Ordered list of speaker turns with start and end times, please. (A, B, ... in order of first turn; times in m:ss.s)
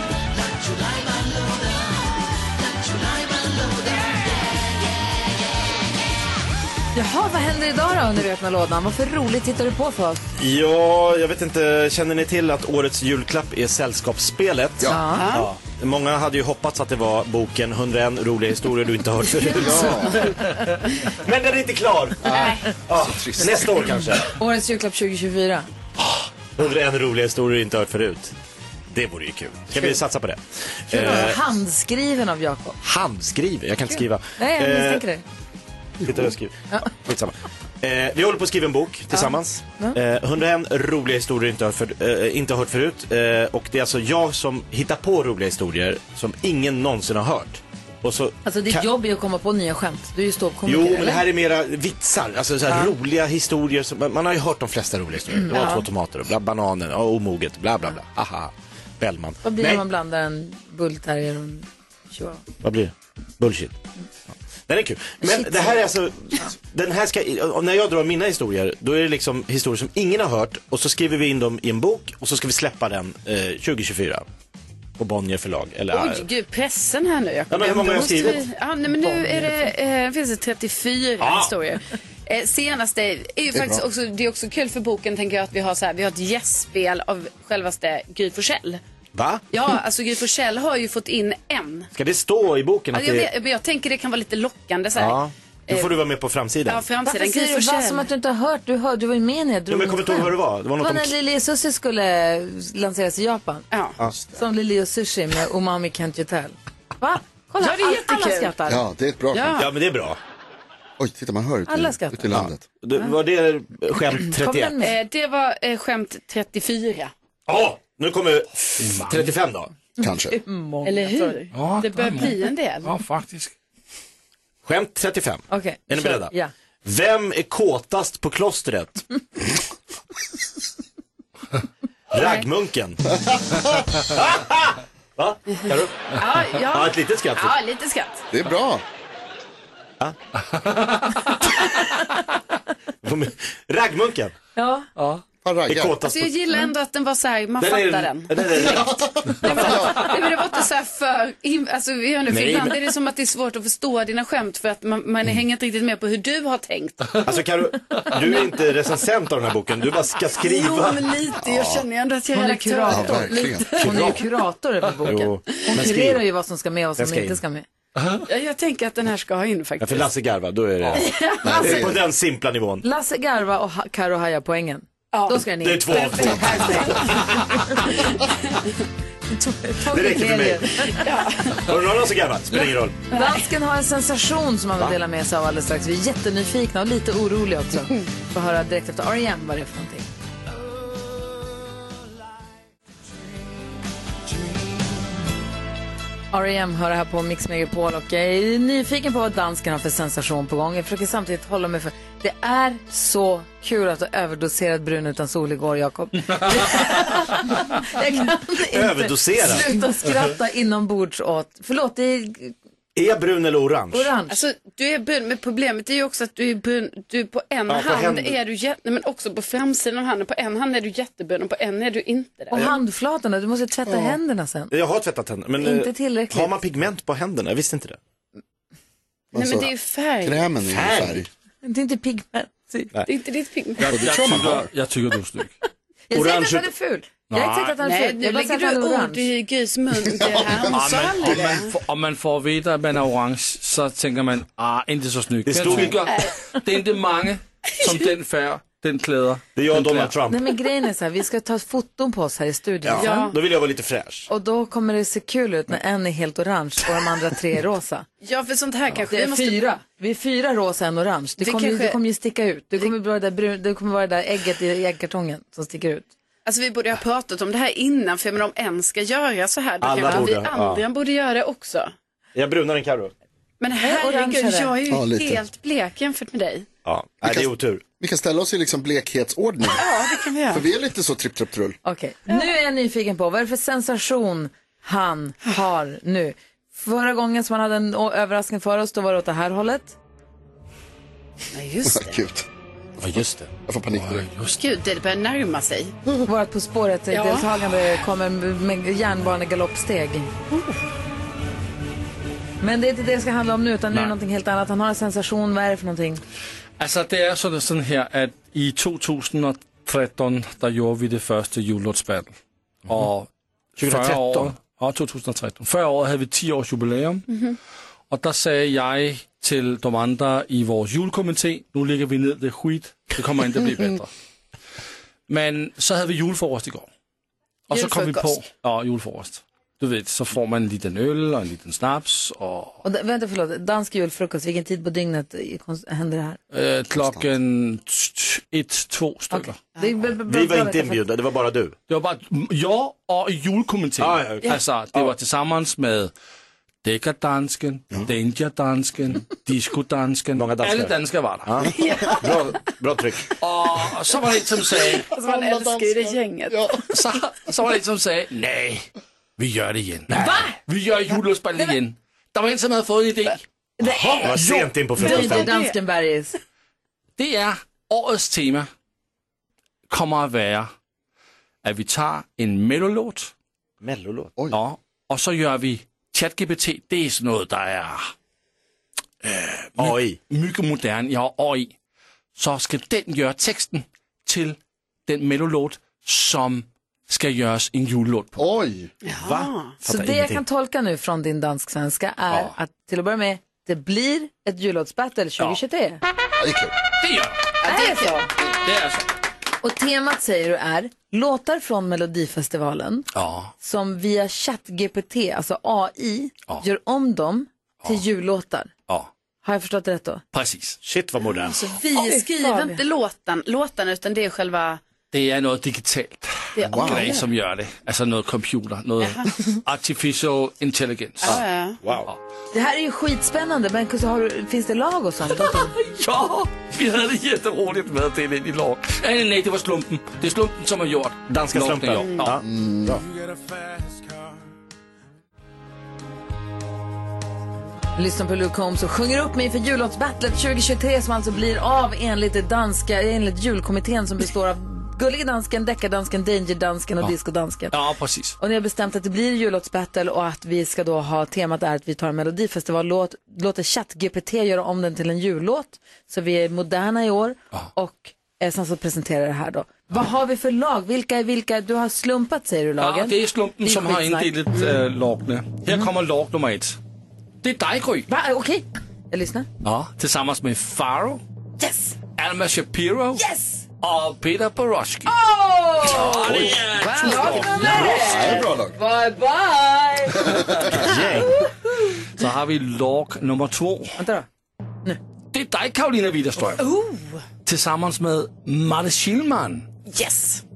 0:06.9-0:10.3 A
0:10.4-0:20.2 B
0:14.8-0:15.3 A
0:15.1-0:15.5 C
0:19.5-0:20.3 D
0:19.5-0:20.0 A
0:21.1-0:24.3 B
0:22.2-0:24.0 D
0:22.3-0:22.6 C
0:24.2-0:25.7 A
0:26.5-0:28.3 B
0:28.9-0:31.4 B
0:30.9-0:32.8 A
0:32.8-0:35.0 B
0:33.9-0:35.2 A
0:36.0-0:48.8 B
0:39.1-0:40.0 A
0:48.4-0:51.2 A
0:50.6-0:59.8 B
0:55.4-0:55.8 A
0:59.4-1:02.4 A
1:02.6-1:03.8 B
1:04.7-1:14.2 B
1:05.2-1:06.4 A
1:15.0-1:16.2 B
1:15.9-1:28.8 C
1:17.5-1:18.4 B
1:19.0-1:19.7 A
1:21.2-1:21.5 B
1:23.5-1:23.8 D
1:29.1-1:29.4 B
1:29.5-1:31.9 C
1:31.9-1:33.3 B
1:32.9-1:36.0 C
1:35.0-1:36.8 B
1:36.6-1:38.1 C
1:37.0-1:43.6 A
1:39.7-1:41.1 B
1:44.3-1:48.8 A
1:47.6-1:48.5 C
1:48.7-1:49.6 D
1:49.3-1:49.7 C
1:49.6-1:50.2 B
1:51.0-1:52.6 D
1:51.7-1:52.4 A
1:52.3-1:54.7 B
1:54.2-1:55.0 A
1:54.8-1:57.1 C
1:57.5-1:59.7 B
1:58.8-1:59.3 E
2:00.0-2:00.4 D
2:00.0-2:01.3 A
2:00.8-2:02.9 C
2:01.5-2:03.5 E
2:04.6-2:06.3 B
2:05.5-2:06.5 A
2:06.8-2:09.0 B
2:12.1-2:13.1 B
2:12.2-2:12.4 C
2:14.0-2:17.6 B
2:16.1-2:18.2 C
2:18.3-2:18.8 D
2:20.5-2:21.3 E
2:23.0-2:24.3 B
2:24.6-2:24.9 A
2:25.0-2:25.2 E
2:25.4-2:26.0 D
2:25.7-2:26.3 B
2:26.0-2:28.6 C
2:27.6-2:28.0 E
2:28.0-2:29.8 B
2:28.6-2:29.7 D
2:29.4-2:37.2 C
2:32.3-2:32.8 B
2:37.2-2:41.1 B
2:40.4-2:43.7 C
2:41.4-2:41.8 D
2:42.3-2:47.6 A
2:42.9-2:44.2 D
2:43.8-2:44.2 B
2:45.0-2:46.2 B
2:47.0-2:47.4 B
2:48.3-2:50.1 C
2:49.8-2:52.8 B
2:50.9-2:51.8 C
2:51.4-2:52.0 D
2:52.8-2:57.9 A
2:55.1-2:57.2 C
2:55.6-2:57.7 B
2:58.0-2:58.5 C
2:59.3-3:01.2 A
2:59.8-3:00.8 B
3:00.9-3:01.6 C
3:01.6-3:03.0 B
3:03.1-3:03.4 C
3:03.1-3:10.1 A
3:16.3-3:32.5 A
3:28.7-3:29.7 B
3:32.9-3:34.1 B
3:33.9-3:34.4 A
3:34.3-3:42.6 C
3:37.7-3:38.4 B
3:42.5-3:44.7 A
3:43.9-3:44.2 D
3:44.7-3:48.0 B
3:45.6-3:46.5 A
3:49.3-3:49.7 D
3:49.3-3:50.4 C
3:50.2-3:51.3 D
3:50.6-3:51.3 B
3:51.6-3:52.9 A
3:53.1-3:53.8 C
3:53.8-3:55.5 E
3:53.9-3:54.7 D
3:56.1-3:59.3 A
3:56.1-3:56.7 B
3:57.3-3:57.8 E
3:57.8-4:01.7 C
4:00.2-4:00.6 D
4:00.7-4:10.1 E
4:05.4-4:06.1 B
4:06.1-4:06.3 C
4:09.6-4:10.5 B
4:10.3-4:13.3 A
4:12.8-4:14.3 B
4:13.0-4:13.4 C
4:14.3-4:18.1 A
4:18.2-4:19.6 C
4:19.1-4:26.1 A
4:21.4-4:22.0 C
4:26.4-4:31.9 C
4:29.8-4:30.8 B
4:32.3-4:33.1 B
4:33.6-4:36.7 C
4:33.8-4:34.7 A
4:34.9-4:35.4 D
4:36.8-4:37.8 B
4:37.2-4:41.8 D
4:39.7-4:40.6 C
4:41.8-4:50.0 A
4:51.5-4:52.2 C
4:51.8-4:52.4 D
4:53.0-4:54.6 E
4:53.7-4:54.3 D
4:54.6-4:55.9 C
4:56.2-5:00.3 A
4:57.1-4:57.5 C
5:02.6-5:06.2 A
5:06.8-5:12.3 E
5:12.8-5:17.3 E
5:13.8-5:14.5 B
5:17.3-5:17.6 C
5:18.1-5:24.1 E
5:25.3-5:26.9 E
5:27.7-5:32.8 E
5:27.7-5:28.4 C
5:32.8-5:36.4 A
5:36.5-5:39.6 E
5:39.3-5:41.0 A
5:40.2-5:41.8 B
5:41.9-5:46.1 E
5:44.0-5:45.1 B
5:46.8-5:51.5 E
5:50.4-5:53.3 B
5:51.7-5:52.3 C
5:53.4-5:55.1 E
5:55.1-5:56.8 C
5:55.1-5:56.7 D
5:56.9-6:03.4 E
6:00.2-6:00.6 A
6:03.8-6:04.4 A
6:03.8-6:05.5 B
6:04.1-6:05.1 E
6:05.0-6:06.4 A
6:05.0-6:05.7 C
6:07.2-6:08.7 E
6:09.9-6:10.7 E
6:11.6-6:13.3 E
6:13.8-6:14.3 B
6:14.5-6:18.1 E
6:19.2-6:21.7 E
6:19.8-6:20.2 B
6:22.4-6:28.4 E
6:28.4-6:28.9 D
6:29.0-6:29.7 C
6:29.2-6:30.3 B
6:29.8-6:36.0 A
6:36.4-6:36.7 D
6:37.0-6:37.4 E
6:37.6-6:38.3 C
6:37.6-6:38.3 A
6:38.6-6:39.1 E
6:39.6-6:43.1 A
6:43.1-6:43.5 E
6:43.6-6:48.7 A
6:49.4-6:50.2 A
6:50.3-6:50.8 E
6:50.8-6:51.6 B
6:51.4-6:54.8 C
6:51.6-6:52.8 A
6:55.1-7:01.4 E
6:56.6-6:57.2 C
6:56.7-6:57.2 D
6:59.0-6:59.2 C
7:01.2-7:01.8 C
7:01.2-7:02.1 B
7:02.5-7:05.7 A
7:05.3-7:12.4 E
7:11.3-7:13.0 B
7:12.4-7:13.0 D
7:18.0-7:27.8 A
7:27.7-7:28.4 E
7:28.4-7:44.3 A
7:42.8-7:46.8 E
7:47.4-7:48.0 E
7:48.1-7:49.5 A
7:49.6-7:51.2 E
7:51.6-7:51.9 A
7:52.2-7:53.2 E
7:53.2-7:53.6 A
7:53.8-7:55.1 E
7:55.0-8:01.5 A
7:55.8-7:58.4 E
7:57.6-7:58.7 D
8:00.2-8:00.8 D
8:00.7-8:01.4 B
8:02.2-8:04.0 E
8:04.0-8:04.3 A
8:05.3-8:06.6 E
8:07.4-8:09.7 E
8:09.9-8:10.4 C